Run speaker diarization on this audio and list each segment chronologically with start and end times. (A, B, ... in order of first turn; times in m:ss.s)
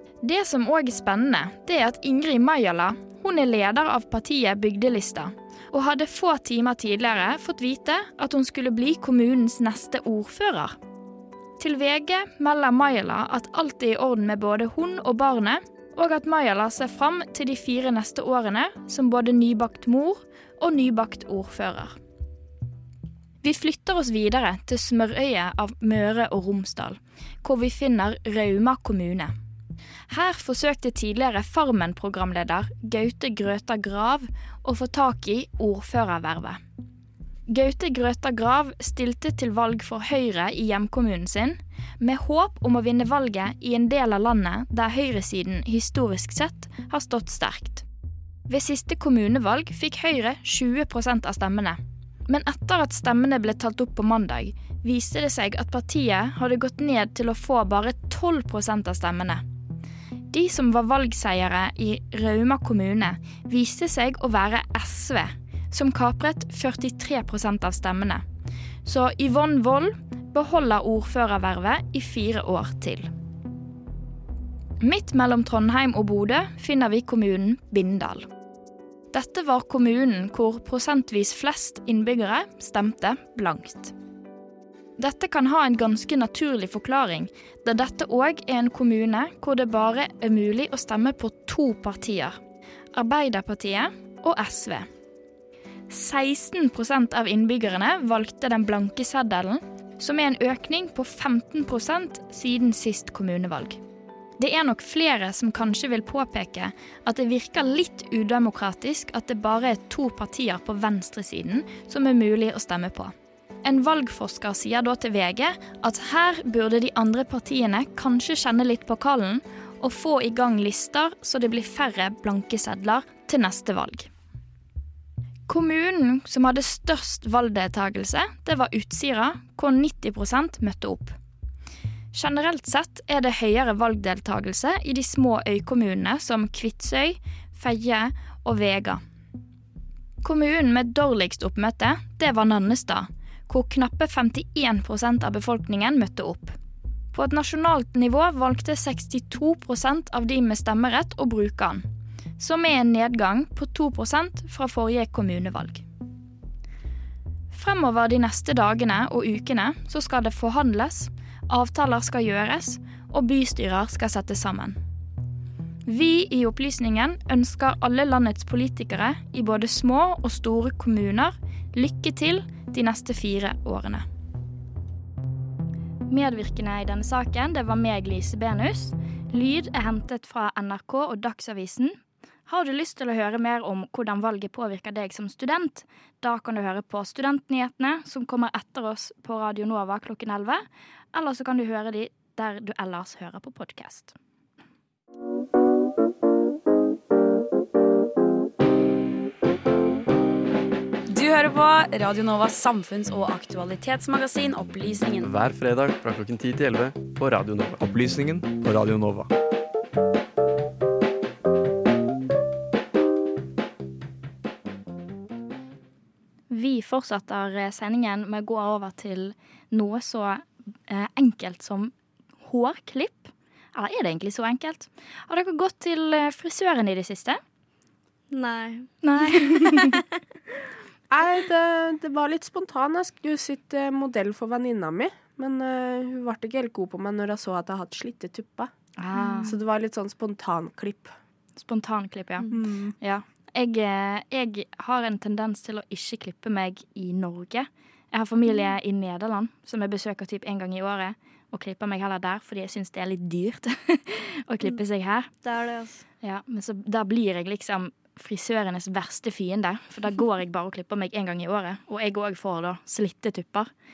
0:00.2-0:10.7 A
0:11.6-0:21.9 A
0:23.4-0:29.3 A
0:30.1-0:36.6 A
0:37.5-0:47.8 A
0:48.5-0:59.4 A
1:00.3-1:08.2 A
1:08.8-1:13.1 A
1:14.8-1:18.3 A
1:19.1-1:23.9 A
1:25.0-1:32.4 A
1:32.9-1:34.9 A
1:35.9-1:43.8 A
1:44.4-2:04.1 A
2:05.5-2:11.1 A
2:12.1-2:19.0 A
2:20.2-2:26.6 A
2:27.1-2:31.8 A
2:32.4-2:35.8 A
2:37.5-2:44.8 A
2:45.8-2:54.0 A
2:56.1-3:02.0 A
3:02.5-3:14.1 A
3:21.1-3:25.3 B
3:25.2-3:29.3 C
3:36.5-3:47.4 A
3:48.3-3:50.0 D
3:49.0-3:50.0 A
3:51.1-3:58.7 E
3:59.0-3:59.6 A
3:59.4-4:01.1 E
4:01.6-4:15.3 A
4:02.5-4:02.9 E
4:15.4-4:16.0 D
4:16.2-4:23.7 A